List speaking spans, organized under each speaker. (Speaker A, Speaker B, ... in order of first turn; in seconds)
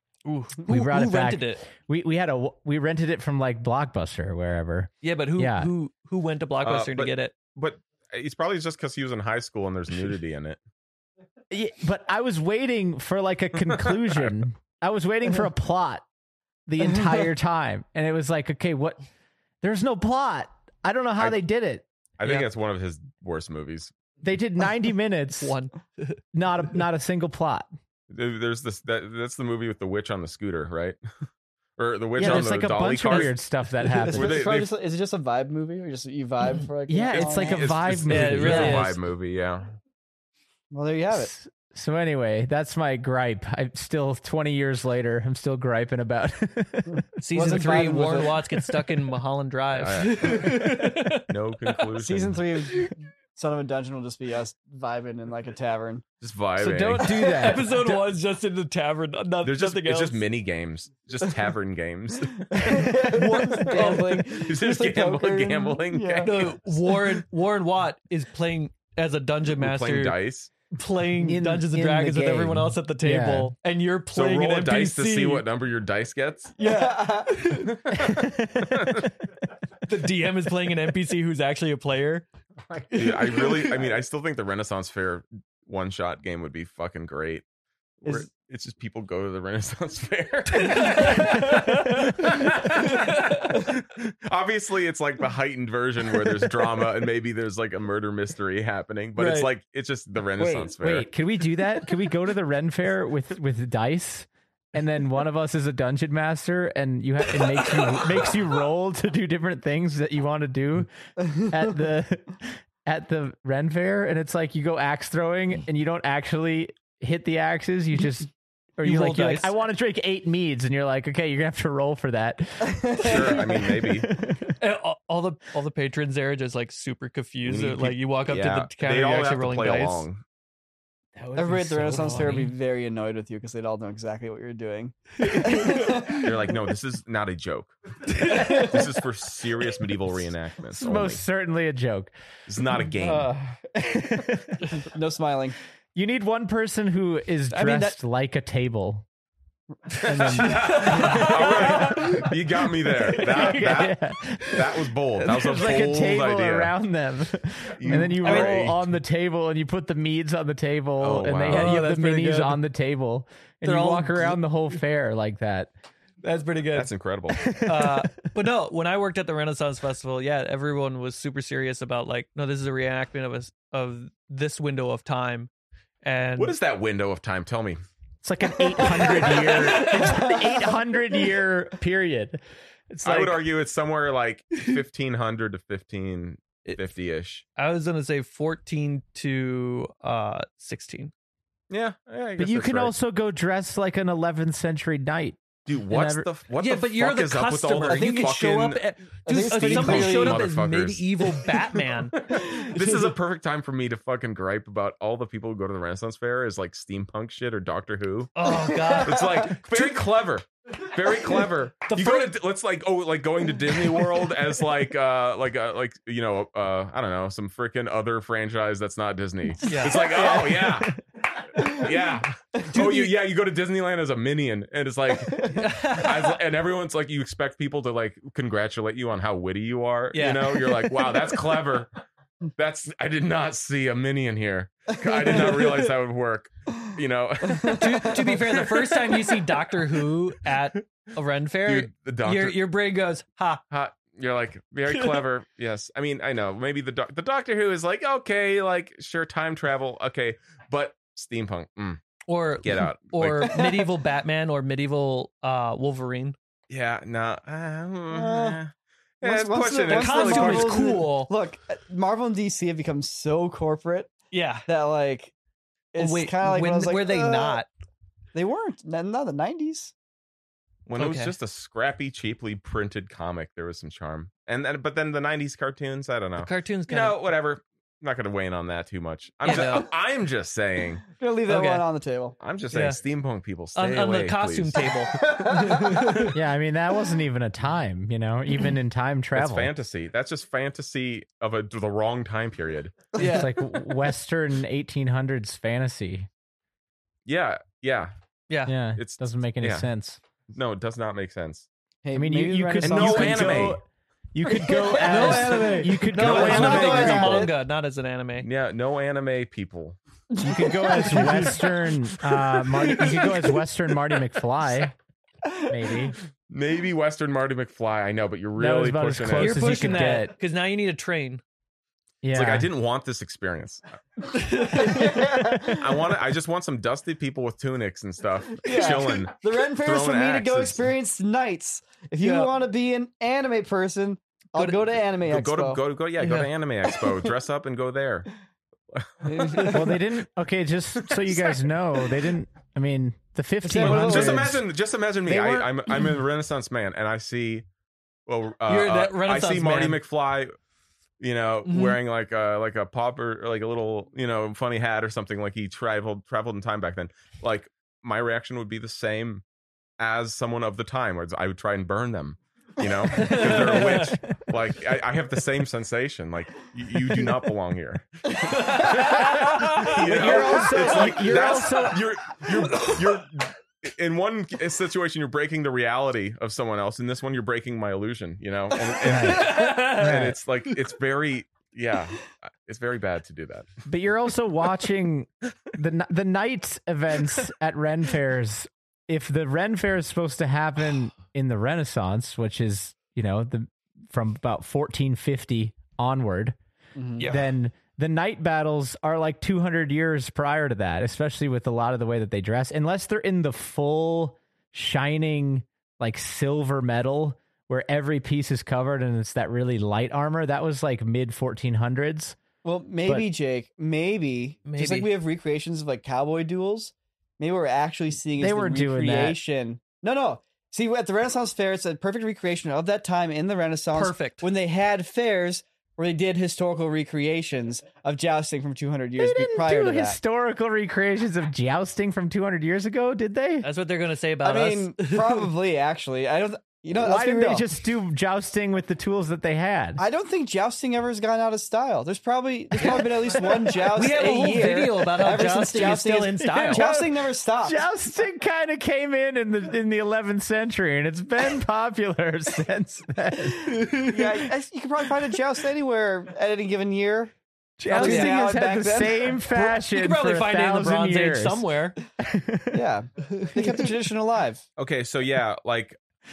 Speaker A: 0.2-1.6, 5.0-7.3, 22.2-22.5, 25.4-26.2, 38.0-39.0, 47.2-51.9, 57.0-60.2, 63.0-64.2, 66.2-70.2, 70.7-75.5, 76.6-77.8, 79.8-82.3, 90.5-93.6, 99.2-99.5, 118.8-119.5, 124.6-130.1, 135.2-136.2, 138.1-138.8, 150.2-152.3, 153.3-153.6, 158.2-158.6, 161.5-162.6, 163.6-164.4, 166.2-166.9, 167.6-175.5, 176.0-176.5, 178.8-180.3, 187.6-191.1, 196.6-203.1, 208.3-210.0, 211.8-212.4, 219.6-220.6, 222.7-223.1, 225.5-226.4, 230.1-230.9, 237.7-243.6, 244.9-245.2, 252.3-256.4, 259.9-261.3, 264.3-264.7, 266.0-267.7, 271.0-271.3, 276.4-277.2, 279.4-279.9, 281.5-281.8, 282.7-283.0, 283.7-286.3, 293.1-293.5, 298.5-298.8, 305.1-308.5, 311.0-311.6, 319.3-321.4, 324.3-325.1, 328.6-329.2, 332.2-332.5, 334.5-334.8, 336.2-336.5, 348.6-350.0, 351.6-352.0, 363.1-364.2, 368.4-371.9, 372.5-373.2, 378.9-380.7, 397.2-397.5, 414.6-415.1, 423.9-424.5, 433.6-435.5, 442.8-446.8, 453.7-454.5, 457.8-458.4, 459.7-462.0, 463.3-463.9
Speaker B: 0.6-5.7, 11.5-16.0, 16.7-19.0, 19.6-21.9, 24.2-25.5, 26.3-27.7, 32.2-34.4, 36.9-39.0, 41.1-47.0, 56.6-58.0, 71.2-73.5, 77.9-79.1, 100.4-123.2, 123.8-124.5, 131.2-132.5, 140.7-142.1, 143.0-144.6, 145.9-149.0, 150.0-152.3, 152.9-154.6, 155.1-165.7, 167.3-168.3, 178.2-183.4, 192.4-196.3, 286.3-289.7, 293.2-296.3, 298.7-300.2, 302.1-307.4, 310.4-314.9, 315.7-316.2, 318.6-320.3, 322.2-322.7, 325.2-325.8, 339.7-344.6, 345.3-345.7, 370.1-372.0, 379.0-380.4, 383.9-396.6, 397.3-412.4, 418.4-419.4, 429.2-433.7, 436.9-440.0, 446.4-453.7, 457.8-461.6, 462.2-462.8
Speaker C: 6.6-10.6, 13.7-14.3, 22.2-23.9, 28.1-31.0, 31.8-33.3, 34.1-34.7, 37.1-39.8, 49.7-50.7, 51.3-52.4, 56.2-57.5, 59.4-67.0, 69.5-70.5, 74.1-76.5, 78.0-79.1, 82.9-87.4, 88.0-101.1, 123.0-124.1, 127.4-130.2, 136.1-141.2, 142.5-143.3, 150.2-156.7, 157.8-158.9, 161.0-161.8, 166.7-167.6, 176.3-177.8, 183.0-187.4, 191.7-192.9, 195.7-198.8, 199.4-201.5, 202.2-208.3, 209.0-221.0, 221.5-231.9, 232.6-238.4, 241.6-242.6, 243.7-252.0, 252.6-253.6, 256.7-260.9, 270.9-281.0, 282.4-284.9, 289.4-293.1, 297.2-298.1, 299.0-299.9, 300.5-301.7, 302.8-303.8, 306.2-307.5, 308.4-310.0, 316.5-320.1, 322.3-323.9, 325.7-330.8, 335.2-338.3, 338.9-339.7, 341.1-341.6, 343.8-347.6, 348.2-350.5, 351.2-359.4, 360.0-368.1, 369.1-383.7, 464.8-466.0
Speaker D: 34.0-37.8, 40.7-41.3, 47.3-48.4, 52.0-56.0, 62.5-66.5, 76.6-77.8, 122.7-123.5, 131.3-136.3, 144.7-145.6, 147.5-147.9, 149.9-151.2, 179.7-180.1, 197.9-198.3, 199.2-200.5, 208.6-209.5, 219.8-220.7, 222.6-223.1, 225.3-225.7, 235.1-235.8, 237.5-238.4, 258.1-258.6, 259.2-264.1, 264.7-265.3, 265.9-267.6, 268.3-269.9, 281.1-282.4, 285.2-286.2, 293.2-293.4, 302.0-303.8, 304.6-307.5, 310.3-311.6, 324.5-325.8, 328.6-335.8, 339.2-340.0, 343.6-344.6, 368.7-369.0, 370.2-370.6, 396.9-397.3, 412.6-430.2, 434.4-437.7, 440.0-447.9, 453.9-457.3, 457.9-459.7, 462.7-464.6